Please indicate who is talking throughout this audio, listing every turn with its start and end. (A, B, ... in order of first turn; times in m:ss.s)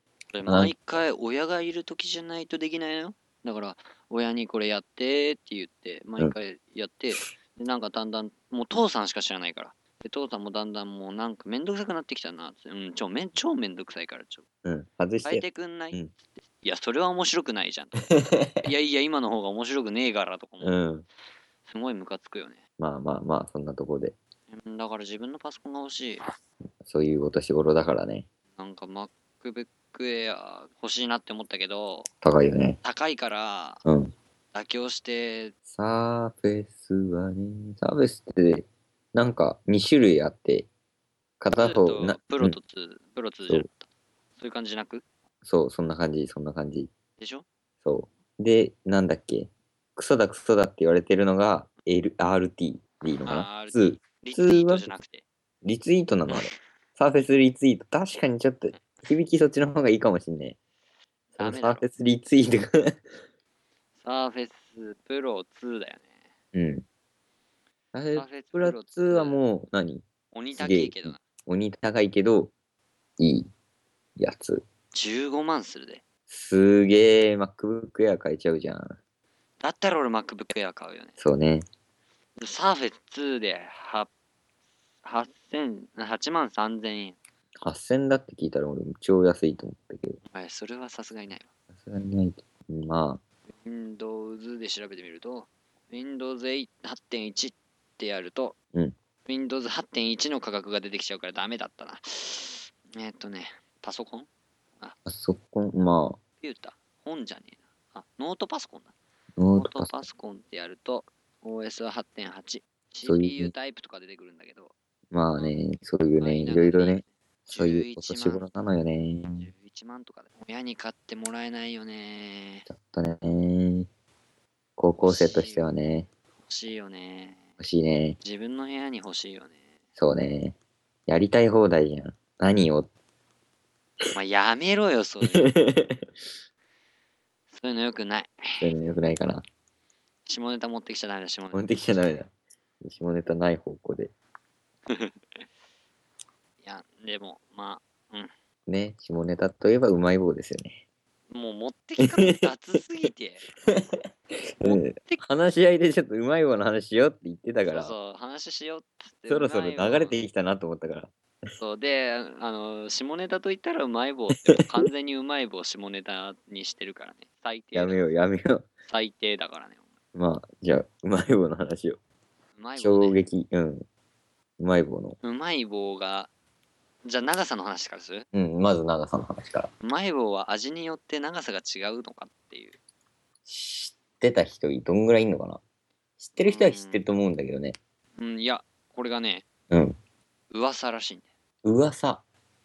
0:00.3-0:14.4 A
0:00.4-0:01.0 B
0:14.6-0:16.1 B
0:15.2-0:16.0 A
0:16.6-0:18.1 A
0:18.0-0:18.7 B
0:18.6-0:20.8 A
0:20.6-0:21.0 B
0:21.7-0:22.6 A
0:22.8-0:24.2 B
0:24.5-0:26.2 A
0:26.8-0:28.2 B
0:28.6-0:32.1 A
0:32.2-0:32.8 B
0:32.8-0:33.8 A
0:33.8-0:34.1 B
0:34.5-0:35.5 A
0:35.7-0:40.7 B
0:41.4-0:42.6 B
0:41.6-0:45.0 A
0:45.4-0:46.9 B
0:47.2-0:47.4 A
0:47.8-0:54.9 B
0:53.2-0:55.2 A
0:55.6-1:00.6 B
1:01.3-1:01.9 A
1:01.4-1:02.7 B
1:04.0-1:06.1 A
1:06.5-1:06.8 B
1:07.9-1:12.5 B
1:08.1-1:09.4 A
1:10.3-1:11.2 A
1:13.2-1:13.5 B
1:14.2-1:14.6 B
1:14.9-1:16.0 A
1:16.3-1:19.0 B
1:19.6-1:21.1 A
1:21.2-1:21.7 B
1:22.4-1:24.1 A
1:25.0-1:27.2 A
1:27.6-1:30.2 B
1:30.3-1:31.5 A
1:31.7-1:33.2 B
1:33.6-1:38.5 A
1:39.2-1:44.3 A
1:45.0-1:46.2 B
1:46.4-1:48.9 A
1:49.4-1:50.1 B
1:49.5-1:54.7 A
1:53.0-1:53.5 B
1:55.1-1:59.5 B
1:56.2-1:58.4 A
1:59.4-2:02.7 A
2:02.7-2:03.9 B
2:04.8-2:06.1 B
2:05.0-2:05.7 A
2:06.4-2:07.4 A
2:07.6-2:08.2 B
2:08.2-2:09.6 A
2:10.0-2:10.6 B
2:11.1-2:12.9 B
2:14.1-2:15.5 A
2:15.2-2:16.0 B
2:17.5-2:18.7 A
2:18.6-2:19.4 B
2:20.2-2:21.8 A
2:21.5-2:22.3 B
2:22.8-2:24.1 B
2:24.9-2:25.4 A
2:26.6-2:28.3 A
2:28.7-2:30.8 B
2:31.3-2:33.7 A
2:32.0-2:32.5 B
2:34.6-2:37.9 B
2:34.6-2:35.2 A
2:37.7-2:40.2 A
2:39.3-2:41.1 B
2:41.6-2:48.1 A
2:47.7-2:48.7 B
2:48.9-2:49.8 A
2:50.1-2:52.0 B
2:52.6-2:53.2 A
2:52.8-2:53.8 B
2:54.6-2:55.2 B
2:55.2-2:56.3 A
2:57.0-2:58.2 A
2:58.3-2:59.7 B
2:59.8-3:02.8 A
3:03.4-3:05.6 B
3:06.2-3:07.8 B
3:06.4-3:07.0 A
3:08.2-3:09.4 A
3:09.7-3:10.0 B
3:10.5-3:11.3 A
3:11.6-3:12.2 B